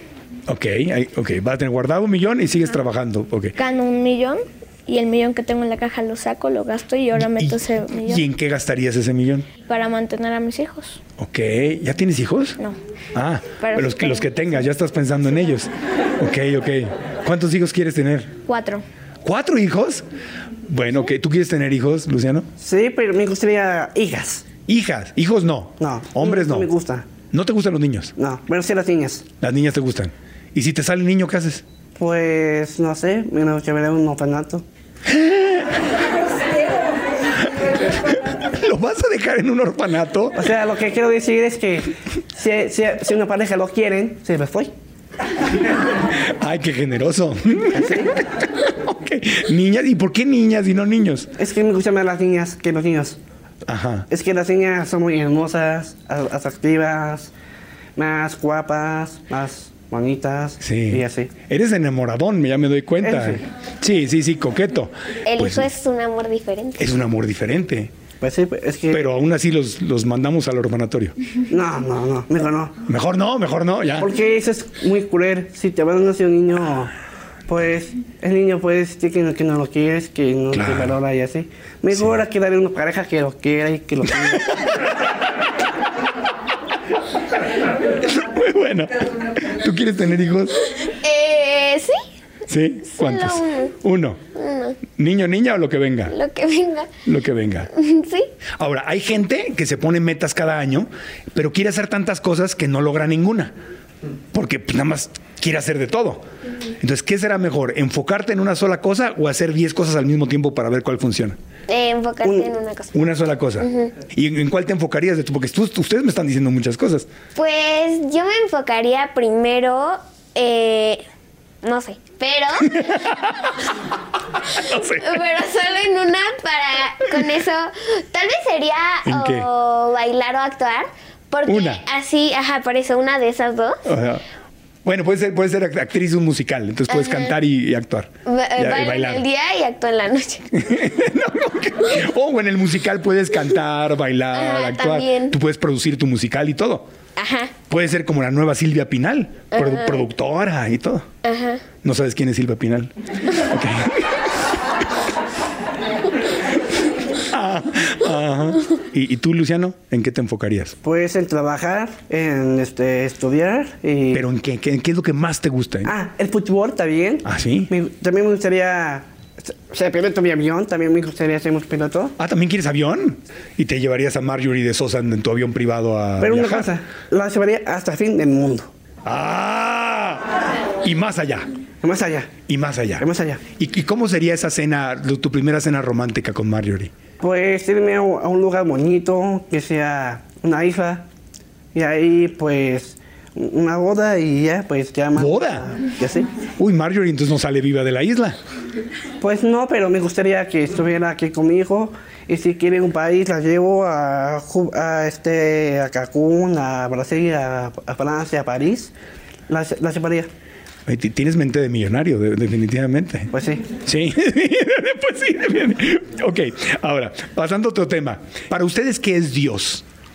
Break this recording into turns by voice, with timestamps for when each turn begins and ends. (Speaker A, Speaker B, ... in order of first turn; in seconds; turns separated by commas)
Speaker A: 0.5-3.5, Speaker B: 3.5-8.2, Speaker A: 7.1-9.5, Speaker B: 9.7-11.0, Speaker A: 11.2-12.6, Speaker A: 13.1-18.3, Speaker B: 13.6-14.3, Speaker B: 18.5-18.8, Speaker A: 19.2-20.0, Speaker A: 20.6-22.5, Speaker C: 22.6-24.4, Speaker A: 24.7-26.7, Speaker C: 25.8-27.1, Speaker A: 27.3-28.1, Speaker C: 28.2-29.2, Speaker A: 29.4-31.6, Speaker C: 32.0-34.6, Speaker A: 35.1-35.8, Speaker A: 37.9-40.5, Speaker C: 40.3-44.7, Speaker A: 45.9-51.3, Speaker C: 47.7-48.2, Speaker C: 51.4-53.2, Speaker A: 53.7-54.1, Speaker C: 54.1-57.3, Speaker C: 58.0-61.3, Speaker A: 60.6-65.7, Speaker C: 63.0-63.4, Speaker D: 65.2-67.0, Speaker A: 66.8-67.9, Speaker C: 68.2-69.0, Speaker A: 68.9-71.2, Speaker C: 71.5-72.7, Speaker A: 72.9-74.1, Speaker C: 74.0-76.9, Speaker C: 77.5-84.6, Speaker A: 80.5-81.0, Speaker A: 81.9-82.2, Speaker A: 84.2-84.8, Speaker A: 88.0-90.5, Speaker D: 91.0-92.0, Speaker A: 92.5-94.2, Speaker D: 92.9-93.7, Speaker D: 94.3-94.8, Speaker A: 94.9-96.1, Speaker D: 96.1-96.9, Speaker A: 97.0-97.7, Speaker D: 97.7-98.3, Speaker A: 98.6-103.5, Speaker A: 104.3-106.2, Speaker A: 106.8-111.4, Speaker D: 111.7-113.0, Speaker C: 112.2-112.5, Speaker A: 112.9-117.1, Speaker D: 113.6-113.9, Speaker D: 117.3-121.0, Speaker D: 121.6-123.2, Speaker A: 122.6-123.6, Speaker A: 124.5-125.2, Speaker D: 124.5-133.8, Speaker A: 129.0-129.5, Speaker A: 131.4-131.8, Speaker A: 133.8-134.2, Speaker A: 134.8-139.2, Speaker D: 136.9-137.3, Speaker D: 138.2-140.5, Speaker A: 140.5-146.9, Speaker D: 144.3-145.4, Speaker D: 147.2-147.5, Speaker A: 147.7-151.1, Speaker D: 149.5-150.0, Speaker D: 151.2-151.6, Speaker A: 151.8-154.1, Speaker A: 157.2-160.8, Speaker C: 160.8-164.2, Speaker A: 164.1-165.9, Speaker C: 165.8-172.1, Speaker A: 167.2-167.7, Speaker A: 172.2-176.7, Speaker C: 176.2-178.7, Speaker A: 179.0-181.5, Speaker C: 181.8-182.3, Speaker A: 182.5-186.9, Speaker C: 183.0-183.4, Speaker C: 187.2-191.1, Speaker C: 191.7-196.3, Speaker A: 195.2-195.7, Speaker A: 196.6-198.4, Speaker C: 199.2-208.9, Speaker C: 209.5-210.3, Speaker A: 210.8-213.3, Speaker C: 213.3-213.7, Speaker A: 213.8-219.8